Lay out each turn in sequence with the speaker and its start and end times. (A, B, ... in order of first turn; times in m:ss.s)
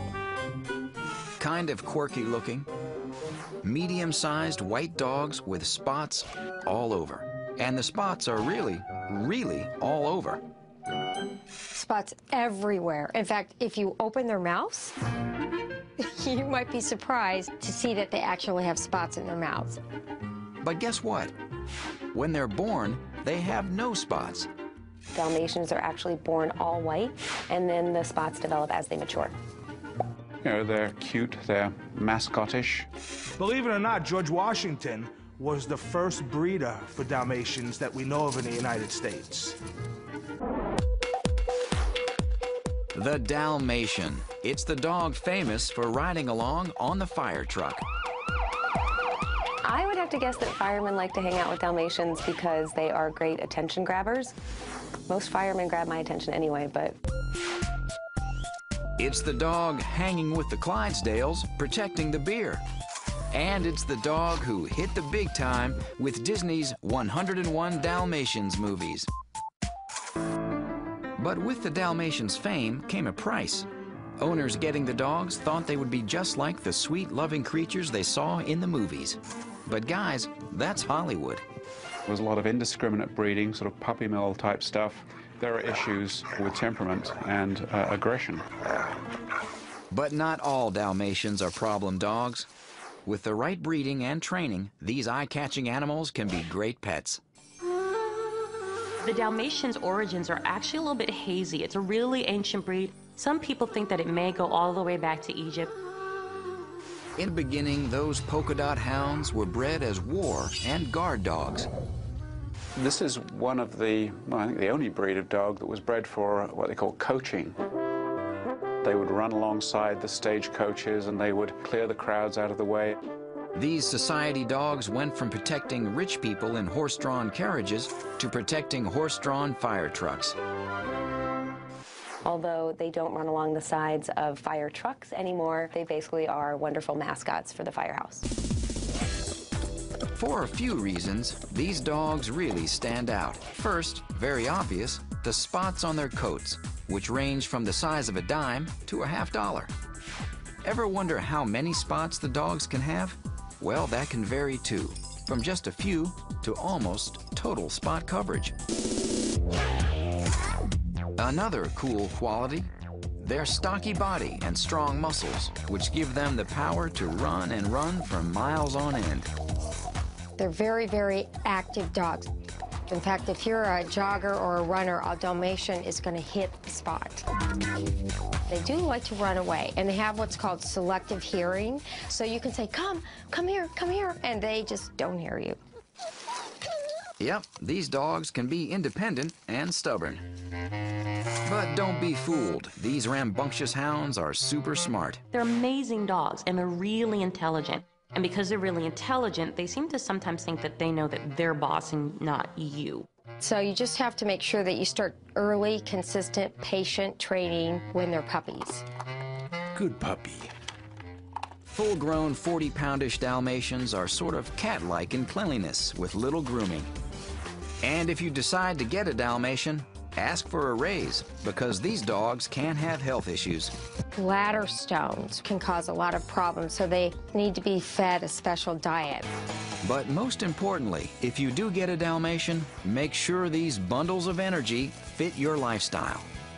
0:01.4-0:02.7 A
0:03.6-0:10.4 A
0:11.7-0:14.9 B
0:16.0-0:19.8 B
0:20.6-0:21.3 A
0:22.1-0:24.5 A
0:25.1-0:29.3 C
0:30.4-0:32.9 D
0:33.4-0:39.6 E
0:42.9-0:47.8 A
0:49.6-0:54.3 C
0:55.1-0:57.0 C
0:59.0-1:02.6 A
1:03.3-1:09.1 A
1:11.2-1:21.4 A
1:22.1-1:28.4 D
1:29.9-1:32.5 A
1:33.0-1:37.2 A
1:39.0-1:45.7 F
1:47.2-1:51.7 A
1:52.8-1:57.6 D
1:58.8-2:03.0 D
2:03.5-2:10.4 A
2:12.2-2:18.3 C
2:20.1-2:29.7 A
2:30.6-2:38.5 A
2:41.2-2:49.3 A
2:50.4-2:52.3 B
2:52.9-2:57.2 B
2:58.5-3:05.6 B
3:07.2-3:10.2 A
3:11.4-3:15.2 A
3:15.3-3:23.1 F
3:23.4-3:28.8 B
3:29.8-3:30.5 E
3:31.7-3:36.9 A
3:37.8-3:43.7 A
3:44.1-3:49.2 B
3:49.8-3:56.3 A